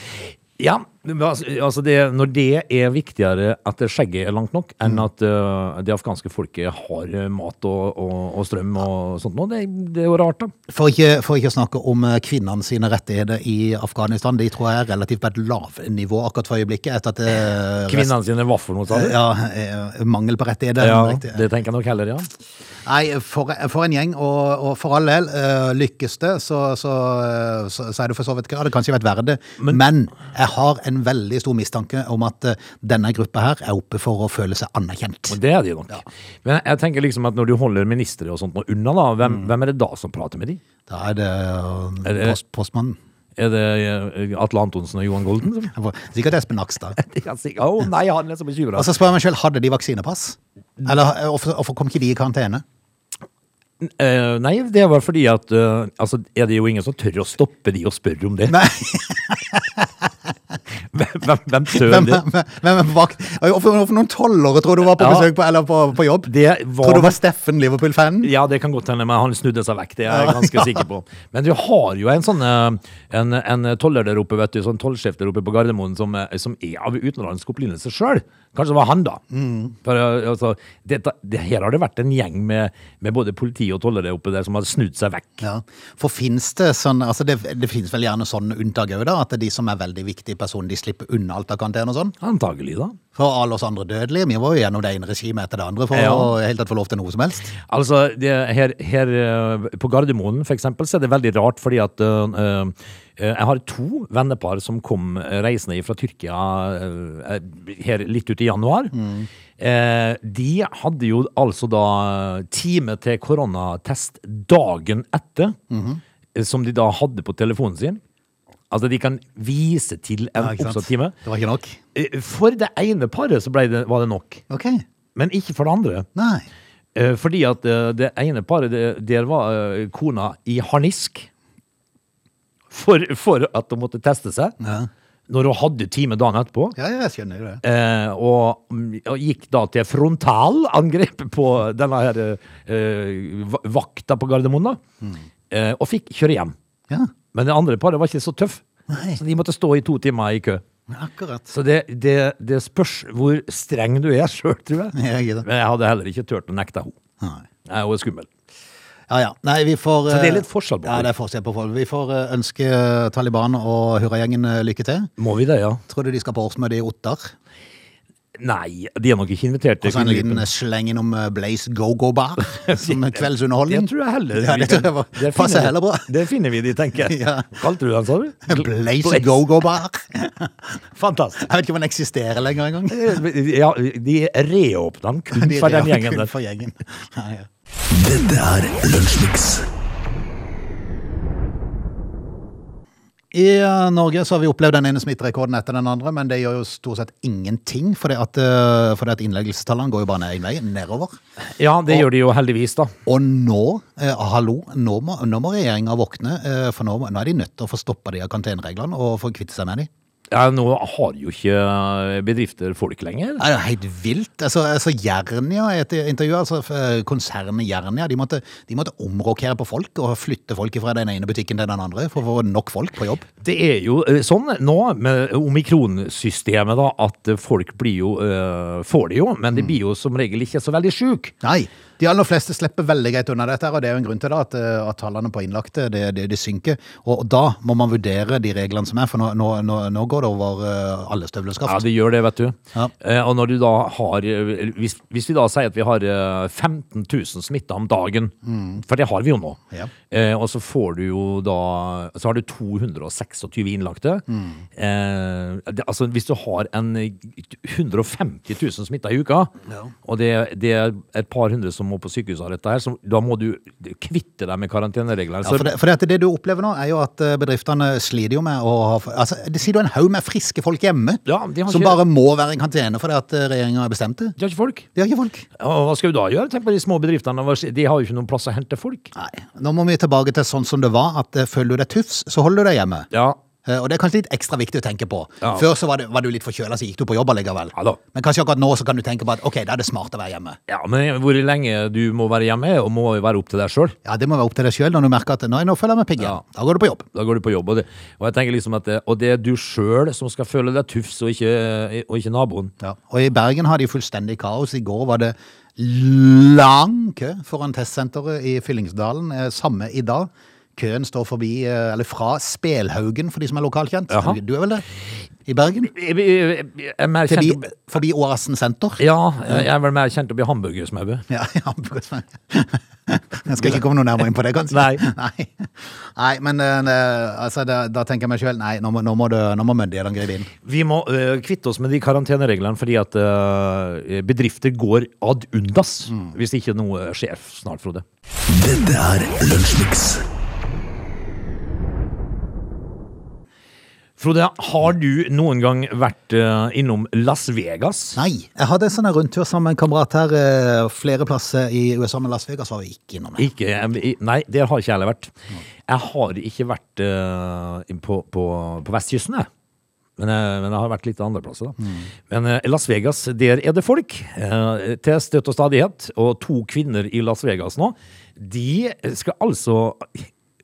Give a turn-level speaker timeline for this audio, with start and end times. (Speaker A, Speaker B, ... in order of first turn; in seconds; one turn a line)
Speaker A: 0.3-10.5
Speaker B: 10.7-18.1
Speaker A: 17.9-19.2
Speaker B: 18.9-21.4
Speaker A: 20.8-22.3
Speaker B: 22.9-35.4
Speaker A: 35.3-40.6
Speaker B: 40.9-43.0
Speaker A: 42.0-42.4
Speaker A: 43.4-45.7
Speaker B: 45.7-47.0
Speaker A: 47.0-48.9
Speaker B: 48.8-52.6
Speaker A: 53.8-58.6
Speaker B: 58.5-60.0
Speaker A: 60.9-62.2
Speaker B: 61.7-68.3
Speaker A: 65.0-65.3
Speaker A: 66.3-67.2
Speaker A: 68.2-79.2
Speaker B: 70.1-70.8
Speaker B: 79.3-79.8
Speaker A: 79.8-85.4
Speaker B: 85.4-92.2
Speaker A: 92.2-93.0
Speaker B: 93.2-97.5
Speaker A: 95.9-96.3
Speaker A: 97.6-108.9
Speaker B: 108.9-109.3
Speaker A: 109.6-115.6
Speaker B: 115.7-116.0
Speaker A: 116.3-118.0
Speaker A: 118.7-121.2
Speaker B: 120.4-121.8
Speaker A: 122.0-124.4
Speaker B: 124.5-124.8
Speaker A: 125.2-126.1
Speaker B: 126.2-126.5
Speaker A: 127.0-131.3
Speaker A: 132.7-134.6
Speaker B: 134.6-134.9
Speaker A: 135.3-136.8
Speaker B: 136.8-137.6
Speaker A: 137.6-144.8
Speaker A: 145.5-146.6
Speaker A: 147.3-148.6
Speaker B: 148.9-149.2
Speaker A: 149.1-150.6
Speaker B: 150.9-151.5
Speaker A: 151.5-157.0
Speaker B: 154.9-155.5
Speaker A: 157.7-158.3
Speaker B: 159.1-165.1
Speaker A: 160.1-161.1
Speaker A: 165.2-165.8
Speaker B: 165.9-167.3
Speaker A: 168.4-170.5
Speaker B: 169.8-176.1
Speaker A: 172.6-179.3
Speaker B: 177.0-177.6
Speaker B: 178.5-180.8
Speaker A: 180.9-181.5
Speaker B: 181.4-183.2
Speaker A: 182.9-186.3
Speaker B: 185.3-187.5
Speaker C: 187.9-189.7
Speaker B: 193.3-201.2
Speaker A: 201.6-202.9
Speaker B: 203.1-209.9
Speaker A: 210.3-213.4
Speaker B: 213.4-223.2
Speaker A: 223.4-231.3
Speaker B: 231.4-241.8
Speaker A: 241.7-259.5
Speaker B: 248.5-248.8
Speaker B: 254.3-254.6
Speaker B: 259.7-259.9
Speaker A: 260.1-265.7
Speaker B: 265.4-274.4
Speaker A: 271.3-272.0
Speaker A: 274.4-274.9
Speaker B: 274.9-275.5
Speaker A: 275.6-279.1
Speaker B: 279.1-283.1
Speaker A: 283.1-283.4
Speaker B: 283.6-290.6
Speaker A: 290.7-294.0
Speaker B: 294.1-297.1
Speaker A: 297.1-302.7
Speaker B: 302.8-314.9
Speaker A: 314.1-314.4
Speaker B: 315.5-315.9
Speaker A: 315.9-317.6
Speaker B: 317.3-319.6
Speaker A: 319.0-321.2
Speaker B: 321.3-330.5
Speaker A: 324.7-325.0
Speaker A: 330.6-338.1
Speaker C: 338.5-340.2
Speaker A: 344.2-348.2
Speaker B: 348.2-353.5
Speaker A: 353.4-355.3
Speaker A: 355.9-359.5
Speaker A: 360.2-370.3